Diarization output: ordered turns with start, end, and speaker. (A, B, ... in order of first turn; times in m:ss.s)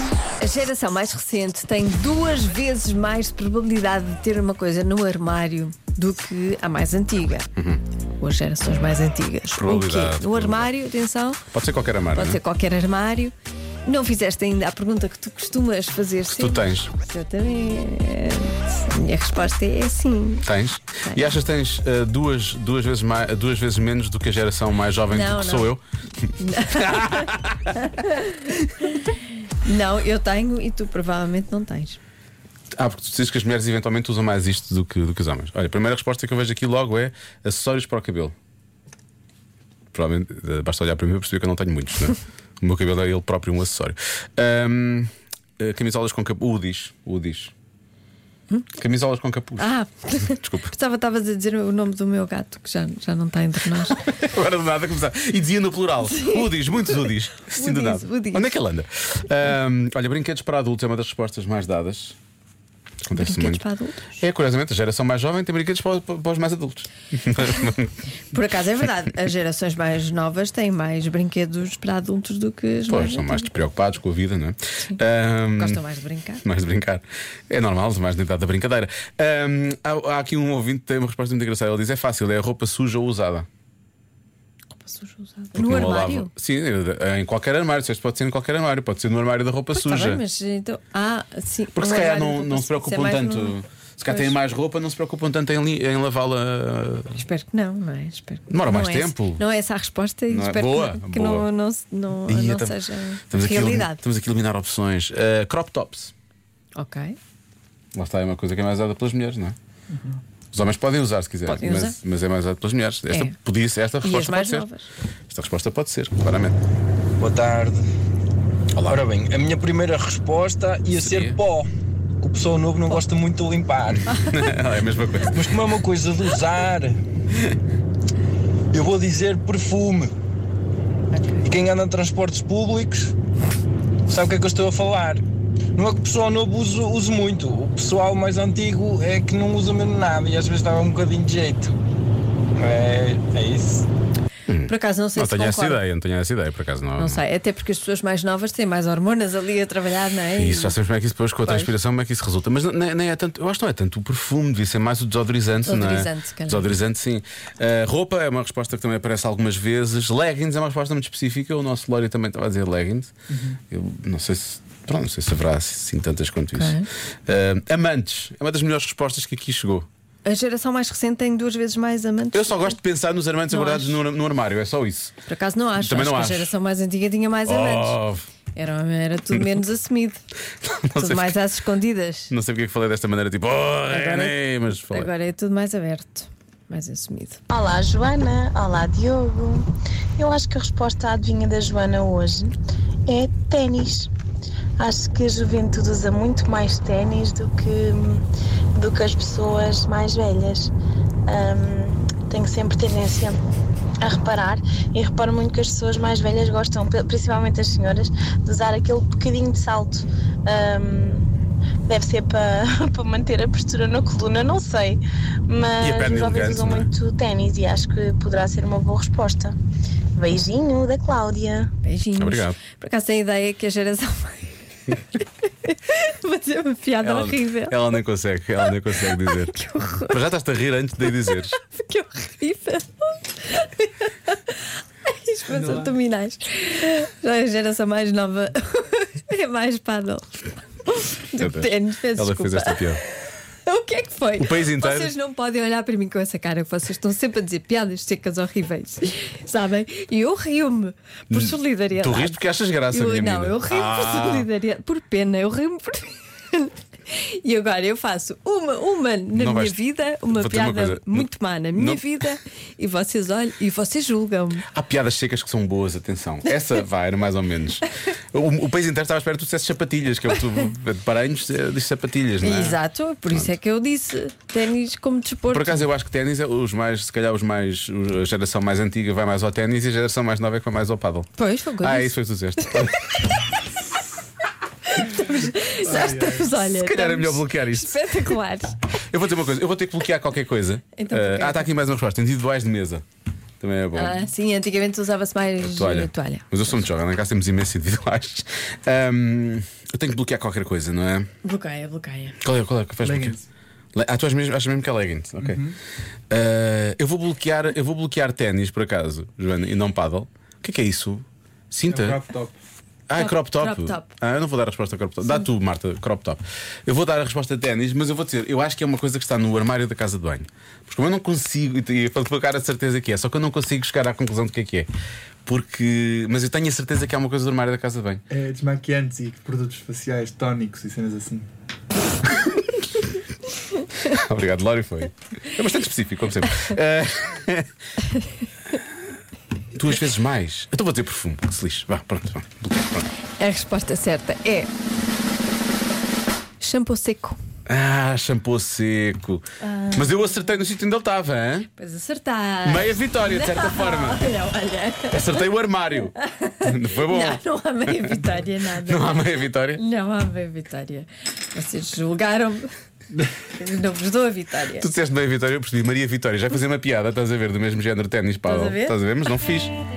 0:00.4-0:07.5 A
0:07.6-0:07.8 B
0:08.2-0:11.5 A
0:09.5-0:10.7 B
0:11.5-0:12.4 B
0:12.1-0:13.3 A
0:13.8-0:20.5 A
0:16.3-0:16.9 B
0:20.4-0:27.7 B
0:21.1-0:21.4 A
0:25.1-0:25.8 A
0:26.4-0:32.0 A
0:32.8-0:38.3 B
0:39.9-0:47.5 B
0:48.8-0:50.7 B
0:49.6-0:54.1 A
0:54.0-1:02.2 B
0:56.1-0:58.5 A
1:03.0-1:03.6 B
1:03.1-1:04.1 A
1:04.1-1:08.0 B
1:08.3-1:13.5 A
1:12.9-1:15.8 B
1:15.6-1:16.4 A
1:16.4-1:23.5 B
1:24.8-1:26.3 A
1:25.5-1:30.2 B
1:29.7-1:33.6 A
1:31.7-1:37.2 B
1:34.1-1:34.3 A
1:37.2-1:44.0 A
1:38.5-1:39.4 B
1:40.3-1:41.5 B
1:42.2-1:42.8 B
1:43.3-1:46.1 B
1:46.8-1:47.2 A
1:47.9-1:49.6 B
1:50.5-1:54.7 B
1:51.4-1:52.0 A
1:53.1-1:53.3 A
1:54.0-1:54.9 A
1:55.3-1:56.6 B
1:57.2-1:57.8 C
1:58.7-1:59.0 B
1:58.8-2:01.7 C
2:00.9-2:01.4 B
2:02.2-2:04.2 C
2:04.1-2:05.4 B
2:05.2-2:07.0 C
2:08.7-2:10.1 C
2:11.1-2:11.4 A
2:11.4-2:13.1 C
2:14.1-2:15.2 C
2:15.7-2:21.7 C
2:22.6-2:23.9 C
2:24.5-2:27.2 B
2:24.7-2:25.8 A
2:27.0-2:30.8 A
2:30.3-2:43.1 B
2:31.4-2:31.8 A
2:35.6-2:36.7 A
2:43.7-2:49.9 B
2:46.5-2:46.9 A
2:50.2-2:52.8 A
2:52.3-2:55.2 B
2:53.5-2:54.0 A
2:55.3-2:58.0 A
2:55.8-2:56.5 B
2:57.4-2:58.3 B
2:58.5-3:00.2 A
3:00.6-3:01.4 B
3:01.0-3:02.3 A
3:02.3-3:05.1 B
3:03.9-3:07.4 A
3:07.5-3:12.5 D
3:13.1-3:14.1 D
3:14.8-3:18.2 D
3:18.7-3:20.7 D
3:21.3-3:23.4 D
3:24.0-3:31.3 D
3:31.8-3:39.6 D
3:35.8-3:36.9 B
3:40.2-3:41.7 D
3:41.8-3:48.0 A
3:42.2-3:42.6 B
3:47.0-3:51.6 B
3:49.0-3:50.2 A
3:51.3-4:03.0 A
3:55.6-3:55.9 E
4:01.4-4:03.0 B
4:03.6-4:24.6 A
4:04.4-4:05.1 B
4:11.3-4:14.5 B
4:19.3-4:19.8 B
4:20.3-4:22.2 B
4:24.7-4:32.8 B
4:32.4-4:35.8 A
4:33.3-4:33.5 B
4:35.5-4:41.3 B
4:41.4-4:42.9 A
4:41.8-4:43.1 B
4:44.9-4:48.8 A
4:45.8-4:46.5 E
4:46.5-4:48.3 B
4:49.1-4:53.0 B
4:51.0-4:51.7 A
4:53.6-4:54.2 B
4:53.9-4:56.8 A
4:55.6-5:01.3 B
5:01.4-5:02.4 A
5:02.4-5:03.3 B
5:03.0-5:03.5 E
5:03.9-5:05.6 B
5:05.4-5:05.8 E
5:06.3-5:12.2 B
5:11.9-5:12.6 E
5:13.1-5:24.9 B
5:13.1-5:14.1 A
5:25.4-5:28.2 B
5:28.3-5:31.5 E
5:34.0-5:37.7 B
5:39.7-5:43.1 B
5:43.4-5:44.7 A
5:46.6-5:47.4 A
5:47.7-5:51.7 B
5:49.6-5:50.4 A
5:51.8-5:55.5 A
5:52.6-5:54.3 B
5:55.1-5:58.1 B
5:56.2-6:02.7 A
5:58.8-5:59.8 B
6:03.4-6:04.9 A
6:04.7-6:09.7 B
6:08.4-6:09.0 A